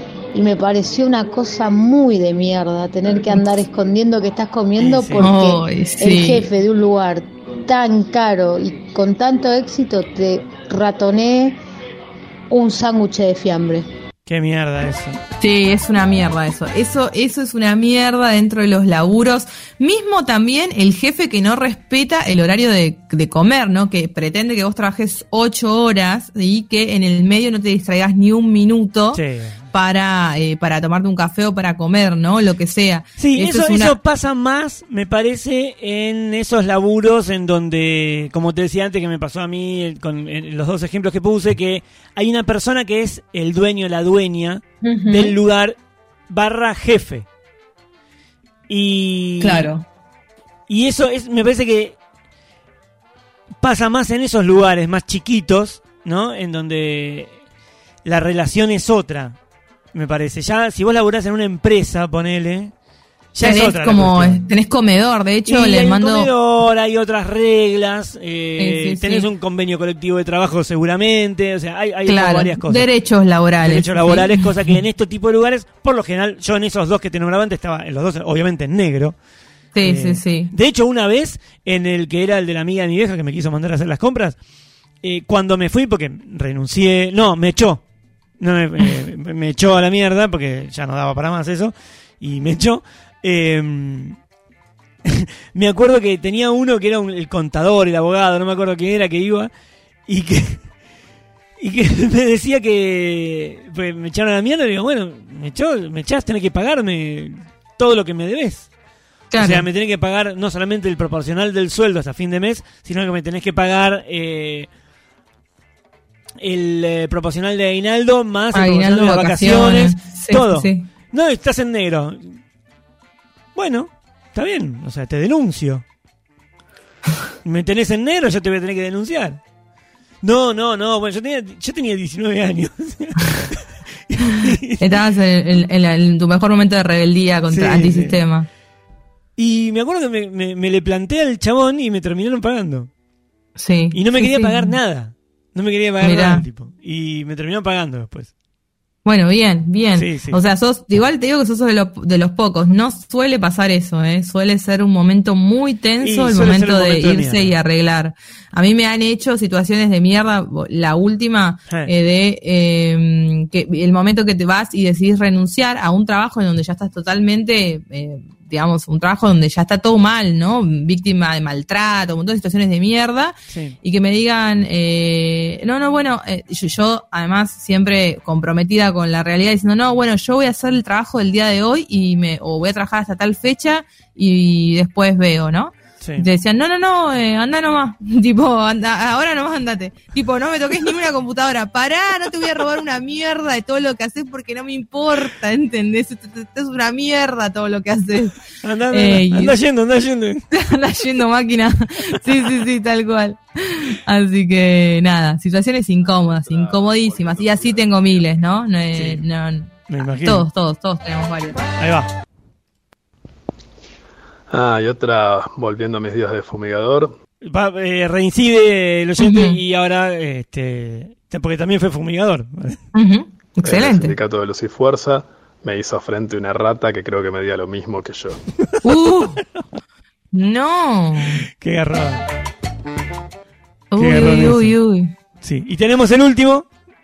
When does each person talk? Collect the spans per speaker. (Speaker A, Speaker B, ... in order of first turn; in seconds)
Speaker A: 0.3-11.6, 12.5-13.9
Speaker B: 4.8-5.3, 14.3-15.2, 29.1-29.6, 33.2-45.8, 46.3-47.3, 48.7-49.7, 50.7-52.0, 53.6-57.4, 58.0-59.4, 59.9-62.7, 63.3-64.5, 65.5-72.9, 73.6-79.2, 79.8-84.4, 85.0-87.8, 88.4-94.2, 95.1-99.5, 100.1-100.7, 101.6-108.7, 109.4-114.7, 116.4-122.4, 123.5-125.8, 127.4-129.4, 130.2-134.9, 137.5-138.2, 139.4-142.9, 143.9-148.3, 149.9-150.4, 156.0-157.5, 173.5-173.8, 186.0-186.3, 198.6-200.5, 208.9-209.2, 209.9-210.5, 211.8-212.1, 217.4-222.8, 231.5-232.2, 233.9-234.8, 235.4-236.7
Speaker C: 5.2-6.5, 15.4-29.2, 29.7-34.0, 49.4-49.9, 63.4-66.3, 68.6-69.3, 72.1-74.4, 79.8-80.5, 109.3-109.7, 118.5-120.9, 134.8-138.5, 143.6-144.7, 146.0-146.4, 149.1-199.6, 200.5-211.6, 219.2-219.6, 222.9-224.2, 228.8-229.4, 230.3-231.4, 233.9-235.1
Speaker D: 206.1-208.2, 214.5-217.1, 223.7-228.4